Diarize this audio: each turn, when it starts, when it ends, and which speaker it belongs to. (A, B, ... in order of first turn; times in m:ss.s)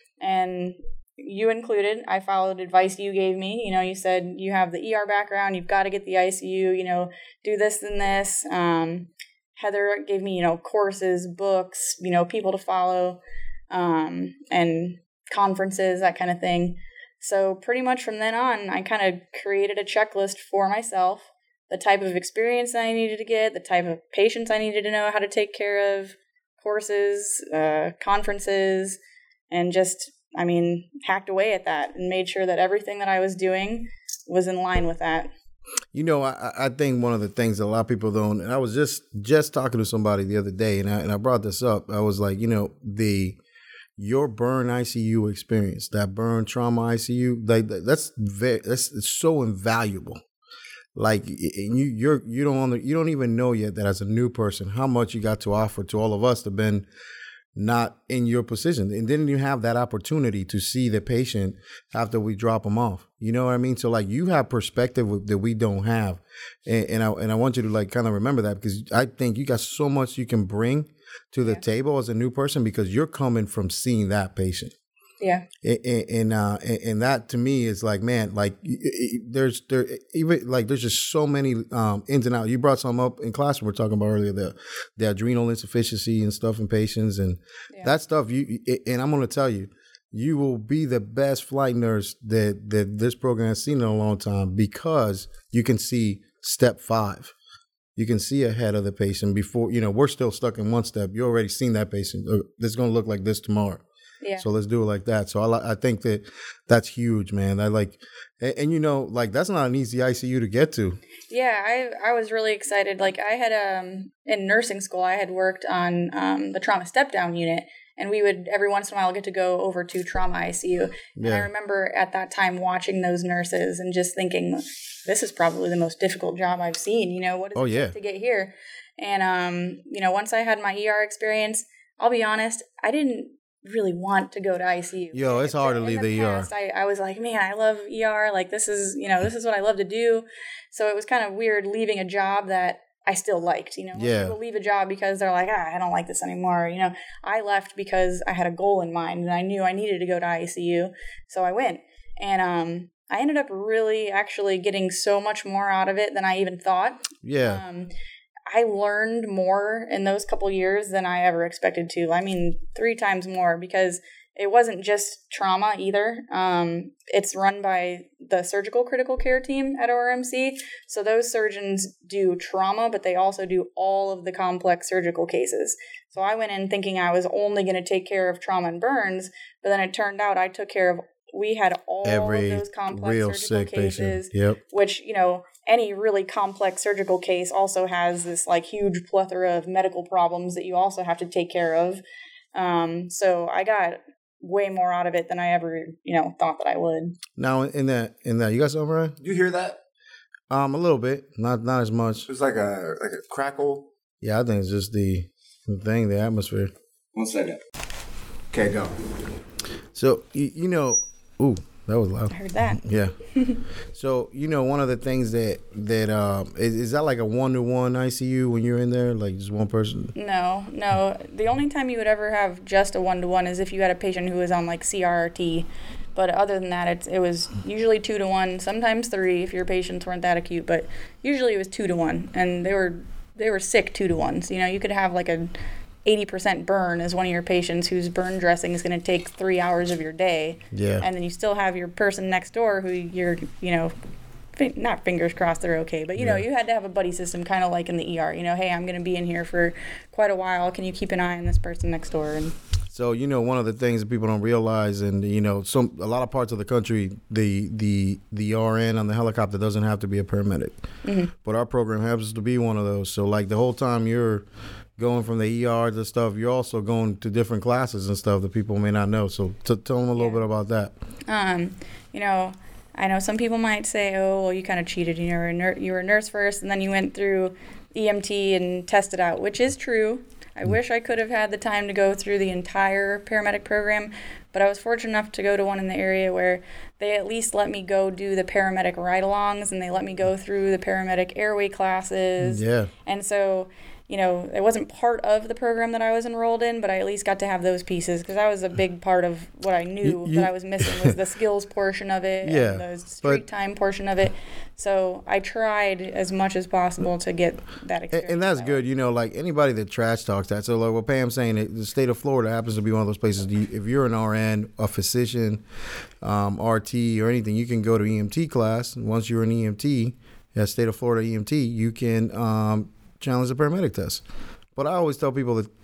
0:00.2-0:29.0 A
0:29.5-0:35.3 A
0:35.9-0:43.4 B
0:44.0-0:50.2 B
0:50.9-0:56.9 B
0:57.6-1:14.7 B
1:15.2-1:15.4 A
1:15.6-1:37.3 B
1:38.0-1:43.8 B
1:44.2-1:44.5 A
1:44.4-1:51.0 B
1:51.3-2:37.9 A
2:01.2-2:01.5 B
2:07.5-2:07.9 B
2:15.1-2:16.5 B
2:23.9-2:24.4 B
2:37.2-2:37.6 B
2:38.5-3:12.0 A
3:02.0-3:04.6 B
3:12.5-3:17.1 A
3:17.4-3:19.2 B
3:19.2-3:19.8 C
3:20.5-3:22.3 B
3:22.3-3:23.9 C
3:24.2-3:26.7 B
3:27.1-3:27.6 C
3:28.5-3:29.0 C
3:29.9-3:33.1 B
3:32.3-3:32.8 A
3:33.3-3:33.6 A
3:33.9-3:40.1 B
3:40.1-3:55.5 A
3:56.0-4:03.9 A
4:00.7-4:01.0 B
4:04.5-4:12.5 A
4:06.2-4:06.4 B
4:12.9-4:20.7 B
4:21.0-4:21.3 A
4:21.4-4:24.4 B
4:25.0-4:30.9 B
4:30.2-4:30.4 A
4:31.3-5:08.8 A
4:52.4-4:52.9 B
5:00.0-5:01.1 B
5:02.4-5:03.4 B
5:08.1-5:15.6 B
5:16.2-5:24.2 B
5:24.8-5:25.7 B